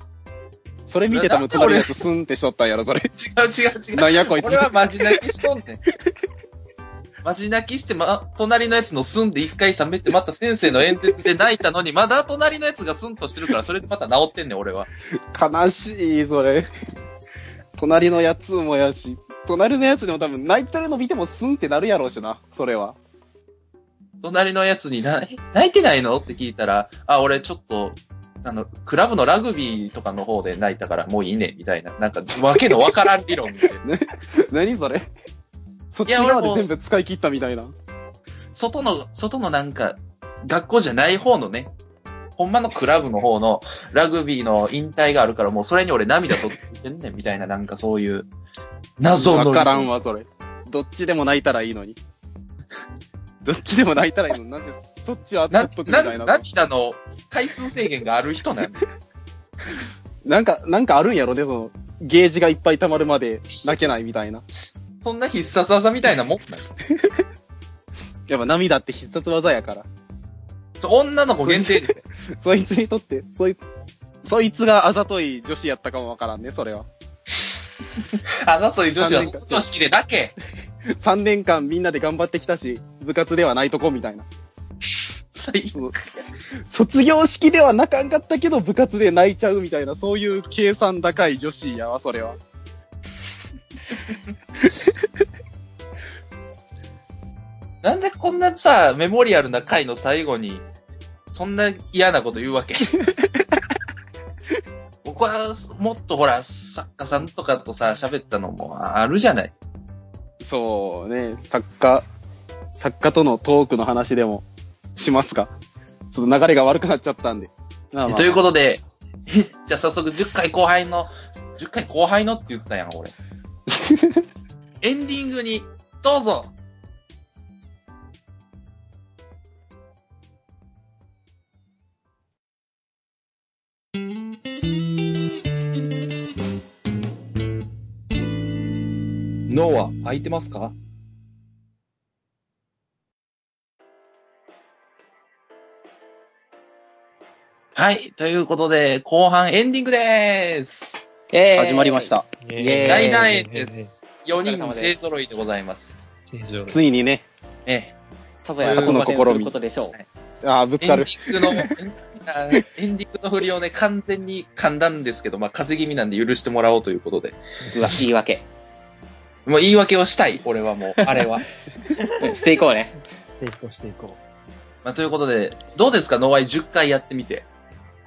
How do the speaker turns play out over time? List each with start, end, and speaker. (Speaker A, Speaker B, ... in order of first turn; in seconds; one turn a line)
Speaker A: 0.9-3.1
Speaker B: 1.1-1.9
Speaker B: 3.1-5.8
Speaker A: 3.9-5.3
Speaker B: 7.2-14.9
Speaker A: 15.3-16.7
Speaker A: 17.8-23.0
Speaker B: 24.2-33.8
Speaker A: 33.8-35.0
Speaker A: 35.9-37.7
Speaker B: 36.1-36.7
Speaker B: 38.5-41.7
Speaker B: 42.4-48.3
Speaker B: 49.0-49.9
Speaker A: 49.1-52.0
Speaker A: 53.4-56.4
Speaker B: 55.5-58.9
Speaker A: 60.2-64.5
Speaker B: 65.0-66.7
Speaker A: 66.9-67.2
Speaker A: 68.3-69.9
Speaker B: 70.8-72.0
Speaker A: 71.4-73.6
Speaker A: 74.2-76.9
Speaker B: 78.3-80.3
Speaker A: 79.0-79.7
Speaker A: 80.9-84.3
Speaker B: 85.3-85.9
Speaker A: 86.6-92.4
Speaker A: 94.7-95.2
Speaker B: 97.8-100.6
Speaker B: 101.3-103.0
Speaker B: 105.0-109.5
Speaker A: 110.4-112.1
Speaker A: 112.8-115.5
Speaker A: 116.1-118.4
Speaker B: 118.1-123.1
Speaker A: 123.7-124.2
Speaker B: 124.8-126.5
Speaker B: 139.5-140.8
Speaker B: 147.8-150.9
Speaker C: 151.3-153.3
Speaker A: 151.6-153.0
Speaker D: 152.4-153.9
Speaker B: 152.9-156.0
Speaker C: 154.4-154.9
Speaker D: 156.3-156.8
Speaker A: 156.7-157.3
Speaker B: 157.7-157.9
Speaker C: 158.4-159.9
Speaker B: 158.6-159.4
Speaker A: 158.7-159.5
Speaker A: 160.4-161.8
Speaker B: 160.8-167.4
Speaker D: 167.7-168.0
Speaker C: 167.7-168.4
Speaker B: 169.5-171.5
Speaker D: 171.9-172.4
Speaker C: 172.2-172.9
Speaker D: 173.4-174.2
Speaker B: 174.8-177.5